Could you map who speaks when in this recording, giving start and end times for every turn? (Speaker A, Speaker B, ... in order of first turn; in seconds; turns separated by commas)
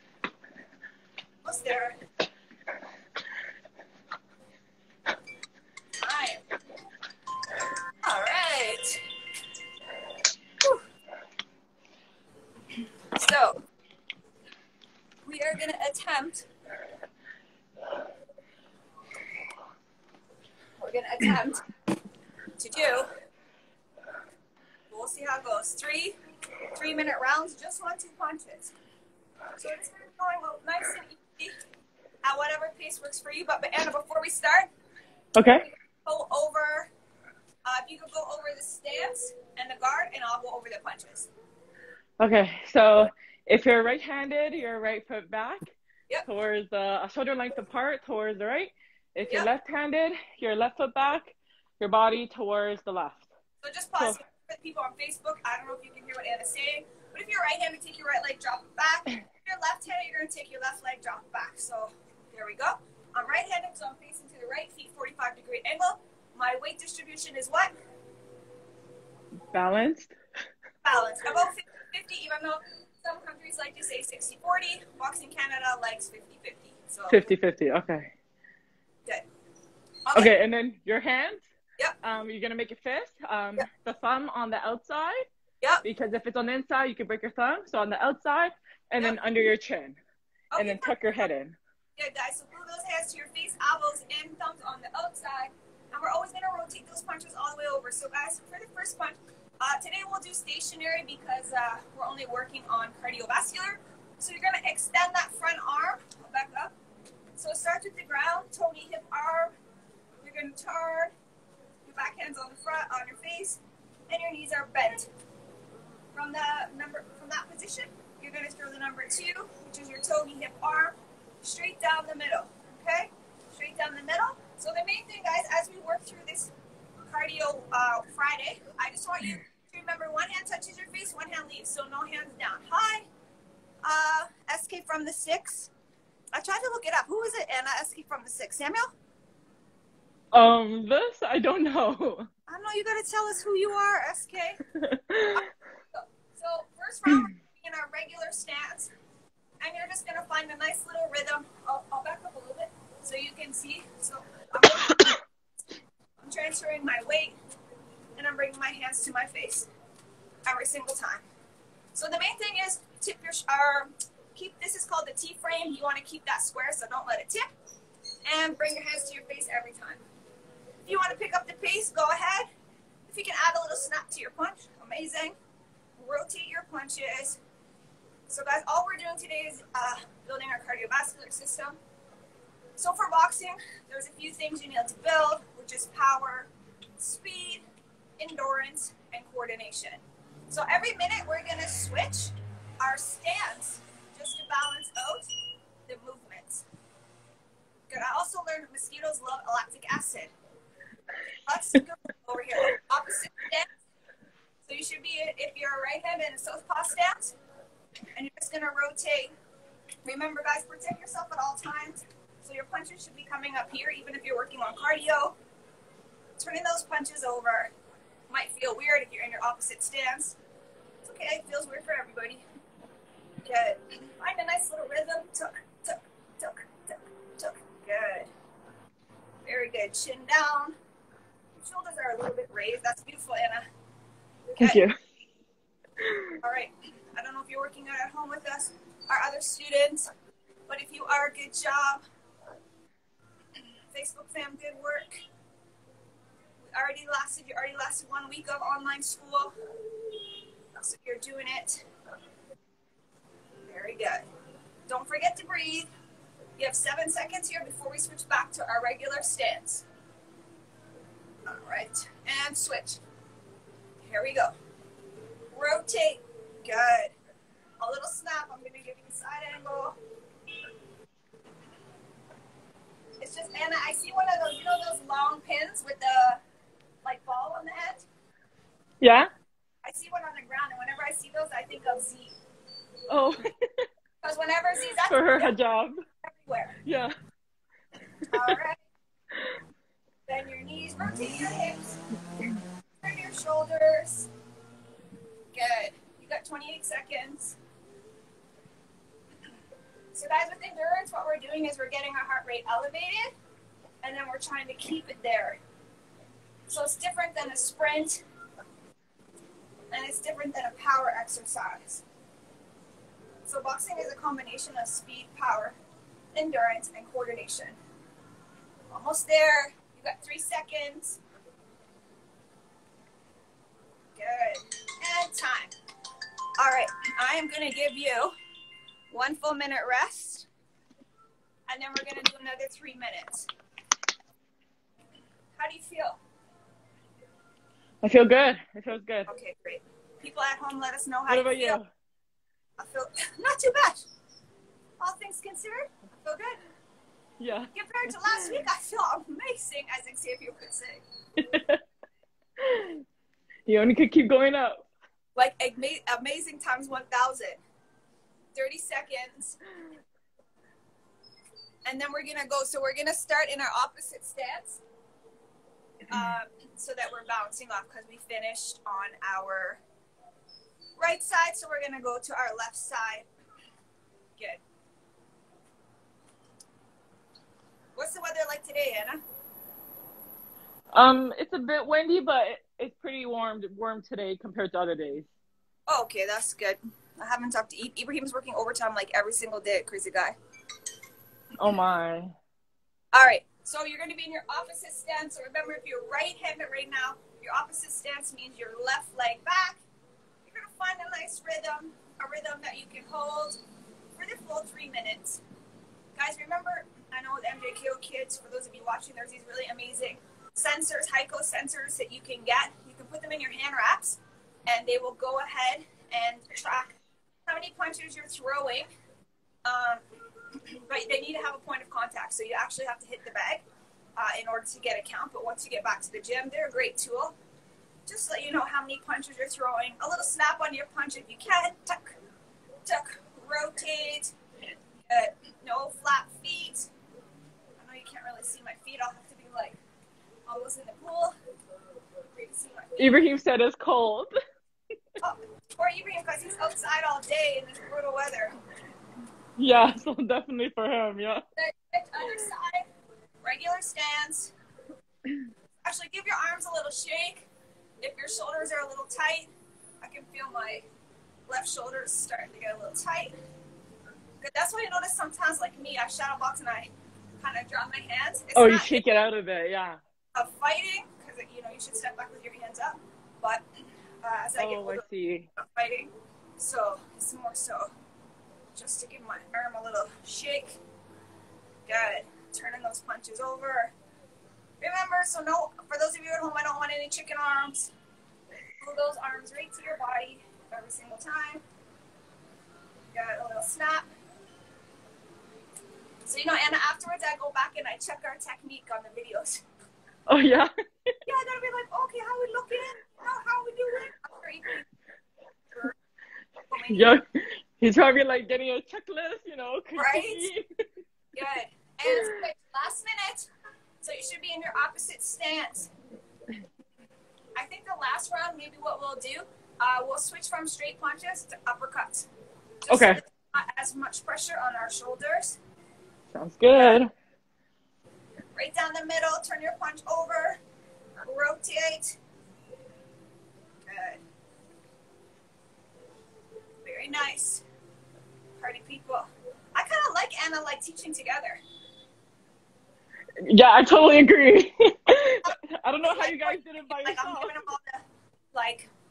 Speaker A: 1.4-1.9, Speaker A: 6.0-6.4, Speaker A: 8.0-9.1, Speaker A: 13.1-13.6, Speaker A: 15.2-16.5, Speaker A: 20.8-21.6, Speaker A: 22.6-23.1, Speaker A: 24.9-26.1, Speaker A: 26.7-28.7, Speaker A: 29.6-31.6, Speaker A: 32.2-34.7, Speaker B: 35.3-35.7, Speaker A: 36.0-36.9, Speaker A: 37.6-41.3, Speaker B: 42.2-45.7, Speaker B: 46.2-53.3, Speaker A: 53.6-67.7, Speaker B: 69.5-70.1, Speaker A: 70.8-77.3, Speaker B: 77.1-78.1, Speaker A: 80.0-80.3, Speaker B: 80.1-81.4, Speaker B: 82.0-85.2, Speaker B: 85.8-90.0, Speaker A: 90.5-91.3, Speaker B: 90.6-91.6, Speaker A: 92.0-106.7, Speaker A: 107.4-109.5, Speaker A: 110.2-111.1, Speaker A: 111.8-115.1, Speaker A: 116.1-126.5, Speaker A: 127.1-133.1, Speaker A: 133.8-135.7, Speaker A: 136.3-138.9, Speaker B: 140.3-142.3, Speaker A: 142.5-144.6, Speaker B: 144.7-145.5, Speaker A: 145.3-148.9, Speaker A: 149.6-155.2, Speaker A: 156.2-157.4, Speaker A: 158.2-159.7, Speaker A: 160.4-161.2, Speaker A: 161.9-167.5, Speaker A: 168.2-170.0, Speaker A: 170.8-172.5, Speaker A: 173.1-175.3, Speaker A: 176.0-177.4, Speaker A: 178.3-181.8, Speaker A: 182.8-187.6, Speaker A: 188.2-195.3, Speaker A: 195.8-196.6, Speaker A: 197.9-200.3, Speaker A: 201.4-203.7, Speaker A: 204.6-207.3, Speaker A: 208.1-209.3, Speaker A: 210.0-215.3, Speaker A: 216.4-217.7, Speaker A: 218.3-220.4, Speaker A: 221.0-222.4, Speaker A: 223.4-228.3, Speaker A: 229.4-230.8, Speaker A: 231.6-233.7, Speaker B: 234.6-234.9, Speaker B: 236.0-236.4, Speaker A: 236.4-240.1, Speaker A: 240.7-242.0, Speaker A: 243.9-245.2, Speaker A: 246.6-249.5, Speaker A: 250.7-251.8, Speaker A: 253.7-254.3, Speaker A: 254.9-255.9, Speaker A: 256.6-259.8, Speaker A: 261.4-263.0, Speaker A: 264.0-264.5, Speaker A: 265.5-267.1, Speaker A: 267.8-269.9, Speaker A: 273.2-276.4, Speaker A: 277.0-278.1, Speaker B: 279.0-279.3, Speaker A: 279.8-282.4, Speaker B: 283.1-283.9, Speaker A: 284.2-285.6, Speaker B: 285.0-286.0, Speaker A: 286.2-286.8, Speaker B: 286.8-287.1, Speaker A: 288.3-288.8, Speaker A: 290.3-292.0, Speaker A: 293.0-294.3, Speaker A: 295.5-297.6, Speaker A: 300.1-303.3, Speaker A: 304.0-305.6, Speaker A: 306.7-308.2, Speaker A: 309.9-312.0, Speaker A: 313.4-315.8, Speaker A: 316.3-317.8, Speaker A: 318.9-321.2, Speaker A: 324.1-325.7, Speaker A: 326.6-328.3, Speaker A: 329.1-330.5, Speaker A: 331.7-333.5, Speaker A: 335.6-336.2, Speaker B: 338.0-339.3, Speaker A: 339.3-341.8, Speaker B: 341.3-341.9, Speaker A: 342.8-344.1, Speaker A: 345.0-346.6, Speaker B: 347.4-348.6, Speaker A: 347.7-351.0, Speaker B: 351.4-351.8, Speaker B: 352.6-353.0, Speaker B: 353.6-354.9, Speaker A: 355.4-357.6, Speaker A: 358.5-359.6, Speaker A: 361.8-364.8, Speaker A: 366.1-369.8, Speaker A: 371.0-373.3, Speaker A: 374.4-374.6, Speaker A: 377.9-379.2, Speaker B: 380.9-385.3, Speaker A: 385.9-390.4, Speaker B: 391.6-392.3, Speaker A: 393.1-399.8, Speaker A: 400.4-403.6, Speaker A: 404.1-405.4, Speaker A: 406.1-416.9, Speaker A: 417.5-418.9, Speaker A: 419.6-420.0, Speaker A: 420.6-423.6, Speaker A: 424.1-427.3, Speaker A: 428.1-432.2, Speaker A: 432.8-434.3, Speaker A: 435.1-436.9, Speaker A: 437.8-439.8, Speaker A: 440.4-441.3, Speaker A: 442.3-443.2, Speaker B: 443.0-444.3, Speaker A: 445.2-448.6, Speaker B: 449.6-451.4, Speaker A: 451.6-452.9, Speaker A: 453.4-454.5, Speaker A: 455.8-457.5, Speaker A: 458.0-460.9, Speaker A: 461.5-463.4, Speaker A: 464.4-469.1, Speaker B: 468.5-470.0, Speaker A: 470.4-473.6, Speaker A: 474.2-475.0, Speaker B: 474.6-475.5, Speaker A: 475.5-477.9, Speaker A: 478.7-480.8, Speaker A: 481.9-483.9, Speaker A: 484.8-487.9, Speaker A: 488.8-491.6, Speaker A: 493.1-494.1, Speaker A: 496.2-499.6, Speaker B: 500.3-501.1, Speaker A: 501.3-504.8, Speaker A: 506.7-507.2, Speaker B: 506.9-510.9, Speaker A: 509.9-510.5, Speaker A: 511.3-513.5, Speaker B: 512.1-512.4, Speaker A: 514.0-515.9, Speaker A: 517.5-522.3, Speaker A: 522.8-525.6, Speaker B: 522.9-523.2, Speaker B: 526.3-527.1, Speaker A: 526.7-527.0, Speaker A: 528.5-530.6, Speaker A: 531.2-532.2, Speaker A: 533.8-534.2, Speaker A: 536.8-537.6, Speaker A: 538.6-541.6, Speaker B: 543.4-547.5, Speaker A: 545.4-548.9